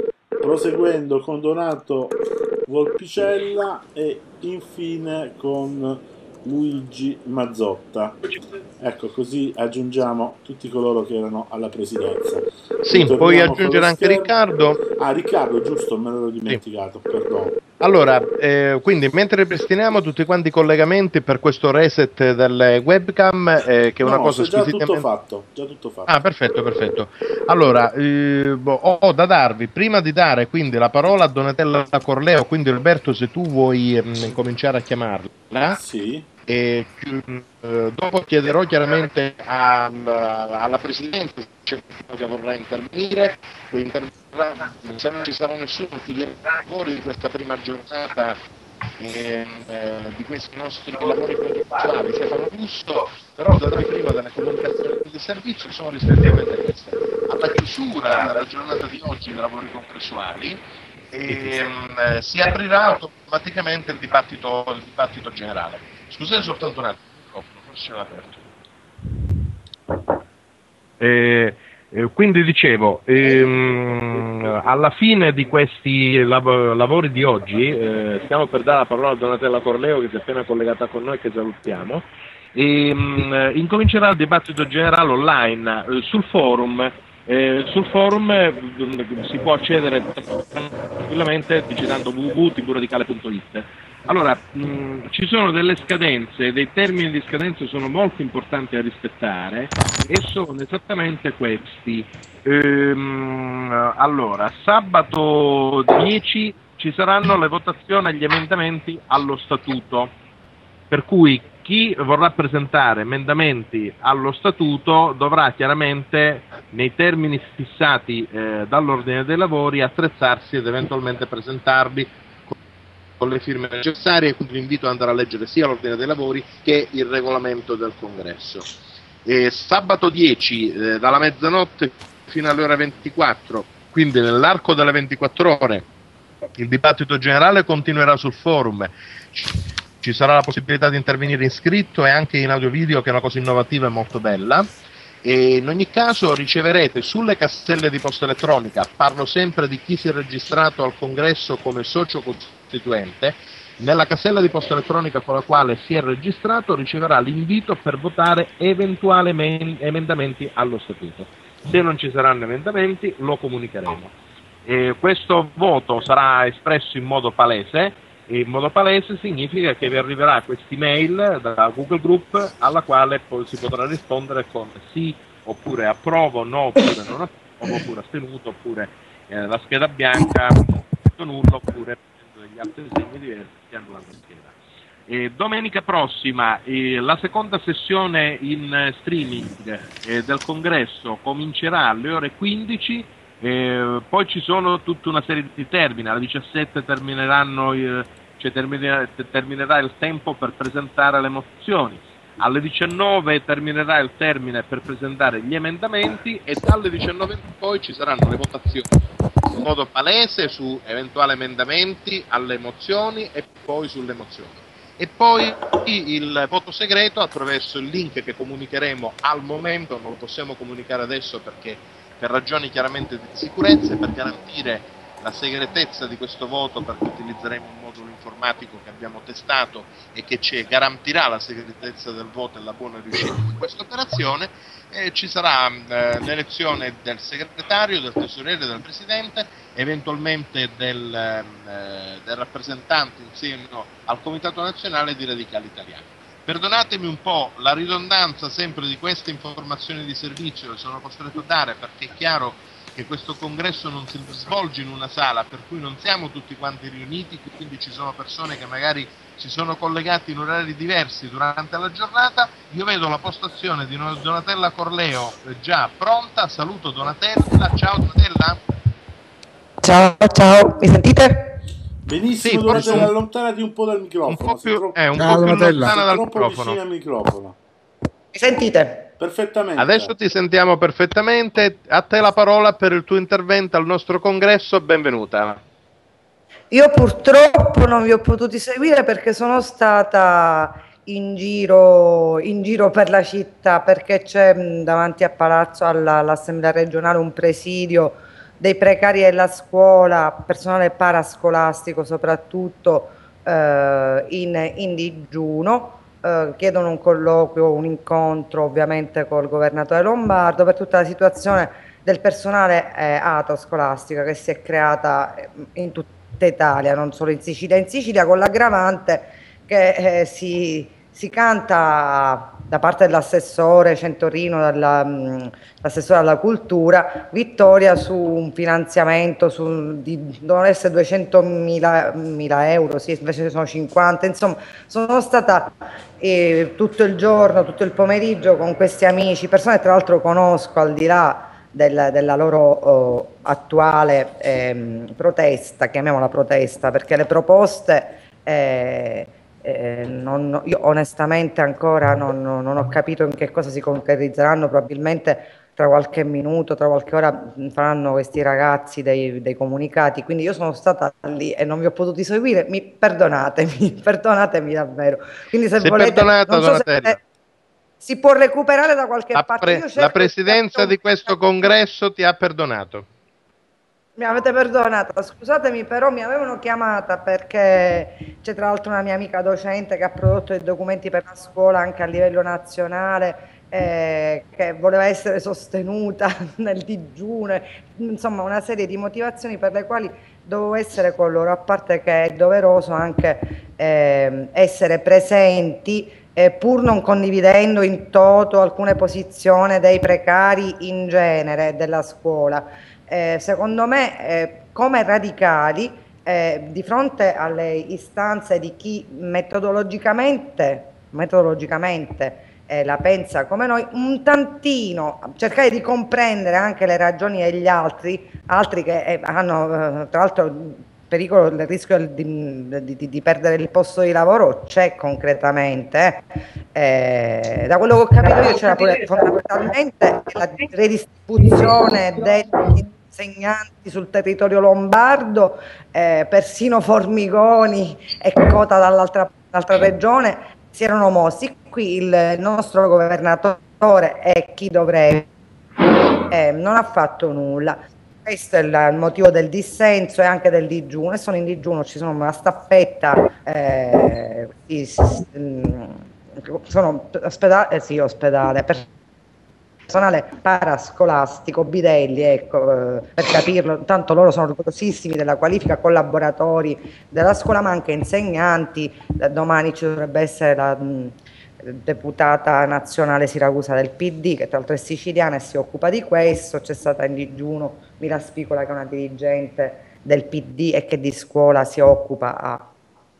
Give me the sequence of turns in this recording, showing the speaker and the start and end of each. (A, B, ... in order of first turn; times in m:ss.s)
0:00.4-0:14.3 A
0:12.8-0:14.8 B
0:14.9-0:17.6 A
0:17.8-0:25.0 B
0:24.0-0:26.1 A
0:26.1-0:35.8 B
0:35.7-0:36.3 A
0:36.5-0:48.4 B
0:49.0-1:00.6 B
1:01.1-1:08.4 B
1:11.0-1:50.1 B
1:50.9-2:02.5 B
2:03.2-2:08.7 B
2:09.2-2:15.9 B
2:16.6-2:24.7 B
2:25.2-2:44.1 B
2:44.6-3:04.5 B
3:05.1-3:29.0 B
3:29.5-4:28.6 B
4:29.8-4:31.6 C
4:32.0-4:37.6 A
4:32.4-4:33.1 B
4:34.3-4:36.8 B
4:38.3-4:39.1 C
4:39.2-4:40.1 A
4:39.8-4:45.6 B
4:46.7-6:07.2 C
6:05.8-6:07.2 B
6:08.0-6:11.7 C
6:09.3-6:13.1 B
6:14.2-7:25.3 C
7:26.3-7:38.9 C
7:39.9-8:02.7 C